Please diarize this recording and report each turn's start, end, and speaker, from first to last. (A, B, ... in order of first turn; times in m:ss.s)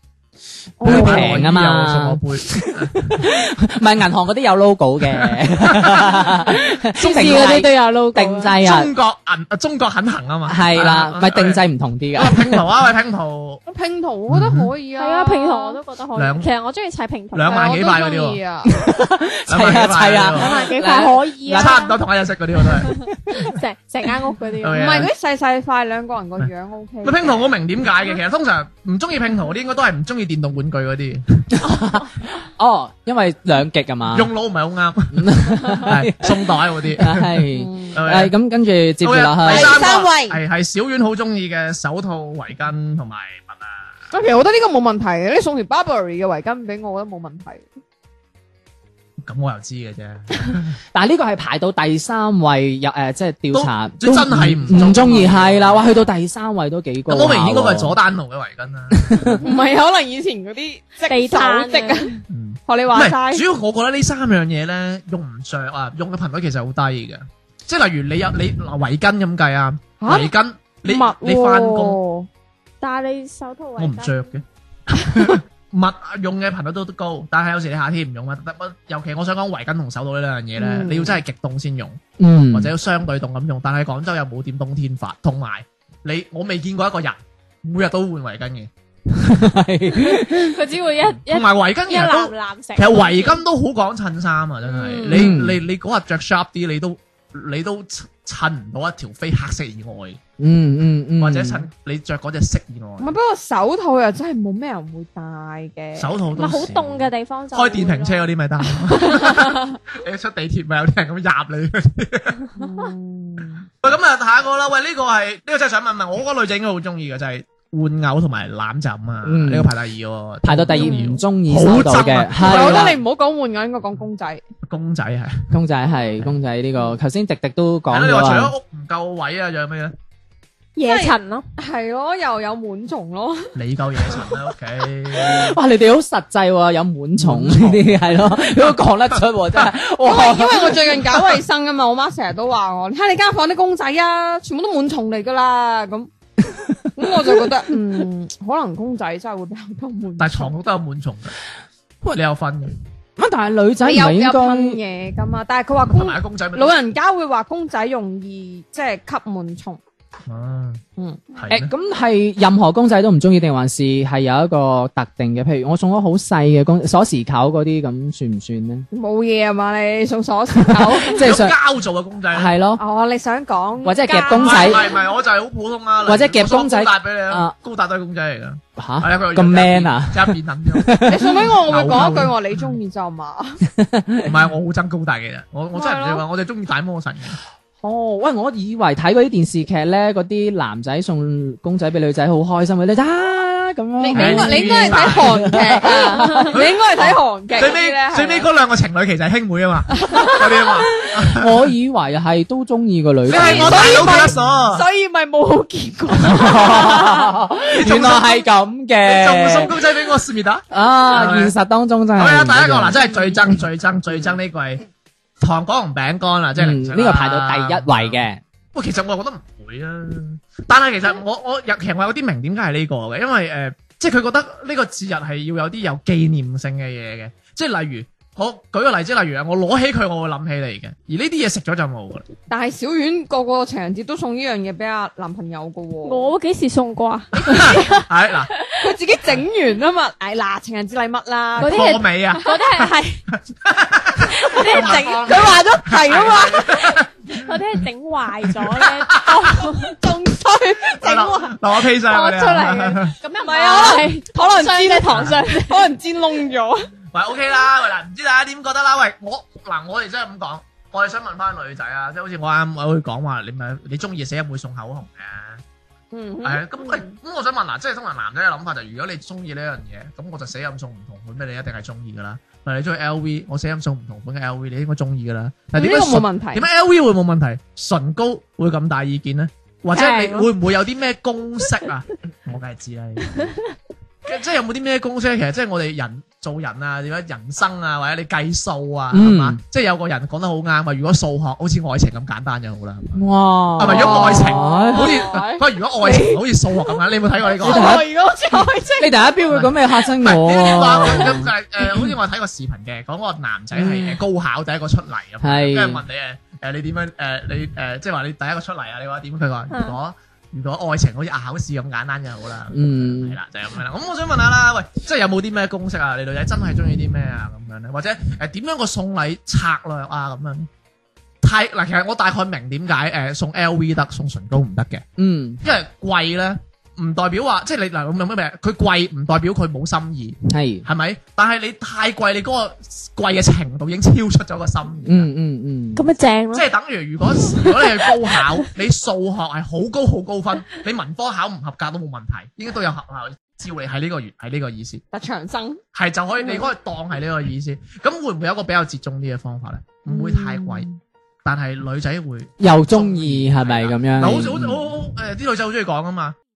0:00.8-0:01.4 A
0:00.8-0:08.9 B
0:00.8-0:03.3 C
0:05.2-0:06.3 C
0:06.8-0:08.5 D
0:08.6-0:11.6 C
0:10.5-0:12.6 B
0:12.2-0:13.6 C
0:13.7-0:15.8 A
0:14.3-0:14.7 C
0:15.0-0:17.8 D
0:16.1-0:16.5 C
0:17.3-0:18.4 C
0:17.5-0:18.7 A
0:18.6-0:21.8 B
0:19.5-0:20.6 C
0:20.3-0:22.0 D
0:21.5-0:23.0 C
0:22.8-0:25.0 D
0:24.6-0:25.1 C
0:24.7-0:27.5 A
0:27.0-0:31.6 C
0:31.6-0:34.3 B
0:34.1-0:38.3 C
0:35.1-0:39.9 B
0:37.5-0:38.0 A
0:39.0-0:43.9 C
0:39.4-0:40.4 A
0:44.1-0:47.7 A
0:49.2-0:50.7 C
0:50.9-0:58.0 B
0:53.5-0:55.8 C
0:54.7-0:55.3 A
0:57.1-0:59.4 C
0:58.9-0:59.4 B
0:59.4-1:03.4 A
1:01.0-1:02.1 D
1:02.3-1:12.0 C
1:10.0-1:10.3 A
1:10.8-1:12.3 A
1:12.8-1:14.2 D
1:13.8-1:22.0 C
1:20.6-1:21.2 A
1:22.2-1:22.7 B
1:22.5-1:28.7 C
1:29.1-1:30.6 B
1:30.1-1:33.4 D
1:31.3-1:40.2 C
1:34.7-1:35.3 A
1:35.1-1:35.6 B
1:40.4-1:41.6 B
1:41.2-1:43.1 C
1:43.0-1:46.1 A
1:46.0-1:52.4 C
1:46.3-1:48.3 D
1:48.9-1:49.8 D
1:52.6-1:53.7 A
1:53.8-2:02.9 C
1:59.2-1:59.7 B
2:00.4-2:03.0 B
2:02.4-2:04.4 A
2:04.6-2:05.5 C
2:05.5-2:08.5 B
2:07.9-2:10.0 C
2:10.8-2:11.4 D
2:10.8-2:13.5 A
2:13.5-2:15.6 C
2:15.1-2:21.1 B
2:17.2-2:19.7 C
2:20.0-2:26.1 A
2:26.5-2:27.4 B
2:27.0-2:30.5 A
2:30.2-2:31.3 C
2:32.0-2:32.8 C
2:33.2-2:34.8 B
2:33.8-2:39.8 A
2:35.8-2:36.8 C
2:40.3-2:40.8 C
2:41.0-2:41.2 A
2:41.3-2:41.7 C
2:41.5-2:48.8 B
2:48.9-2:51.2 A
2:50.6-2:51.6 B
2:51.1-2:52.5 C
2:52.3-2:52.8 B
2:52.8-2:54.6 A
2:53.8-2:54.8 B
2:54.0-2:55.0 D
2:54.4-3:02.4 C
2:56.0-2:57.5 B
2:58.8-3:01.4 B
3:01.1-3:03.6 A
3:03.7-3:04.3 B
3:04.2-3:07.4 C
3:05.7-3:06.2 A
3:07.8-3:16.5 B
3:14.0-3:18.5 A
3:14.1-3:15.6 C
3:16.4-3:21.7 C
3:20.0-3:20.7 A
3:21.3-3:24.2 B
3:23.3-3:24.8 C
3:23.3-3:27.3 A
3:26.2-3:29.7 B
3:27.8-3:28.4 C
3:29.0-3:31.5 C
3:30.7-3:33.0 B
3:32.2-3:34.8 C
3:35.4-3:38.2 C
3:36.6-3:38.4 B
3:38.7-3:52.3 C
3:52.5-3:56.3 A
3:56.0-3:58.9 D
3:57.4-3:58.0 A
3:57.4-3:58.5 C
3:58.8-4:02.5 A
4:01.6-4:02.5 C
4:01.6-4:03.2 D
4:03.3-4:07.6 C
4:04.3-4:05.6 D
4:04.5-4:06.8 A
4:06.6-4:09.9 D
4:08.5-4:09.6 C
4:09.4-4:11.6 A
4:10.9-4:13.1 C
4:12.1-4:15.9 D
4:12.4-4:12.8 A
4:13.3-4:16.9 A
4:15.1-4:15.4 C
4:17.1-4:25.6 C
4:26.1-4:27.1 A
4:26.4-4:43.5 C
4:35.7-4:36.6 A
4:39.9-4:40.5 D
4:44.2-4:53.2 C
4:49.1-4:49.6 B
4:53.1-4:55.3 B
4:53.8-4:58.0 C
4:53.8-4:56.4 A
4:57.5-4:59.2 A
4:57.6-4:58.0 B
4:59.0-5:01.5 B
4:59.5-5:20.7 C
5:03.7-5:04.2 B
5:05.4-5:06.0 B
5:09.7-5:10.0 D
5:12.7-5:13.4 B
5:21.4-5:25.0 C
5:25.2-5:25.6 B
5:25.6-5:35.3 C
5:30.5-5:30.8 B
5:35.0-5:36.0 B
5:36.0-5:36.6 D
5:36.5-5:45.0 C
5:37.3-5:38.6 D
5:45.1-5:45.8 A
5:45.9-5:50.9 C
5:50.1-5:50.8 A
5:51.4-5:56.4 C
5:52.6-5:54.8 B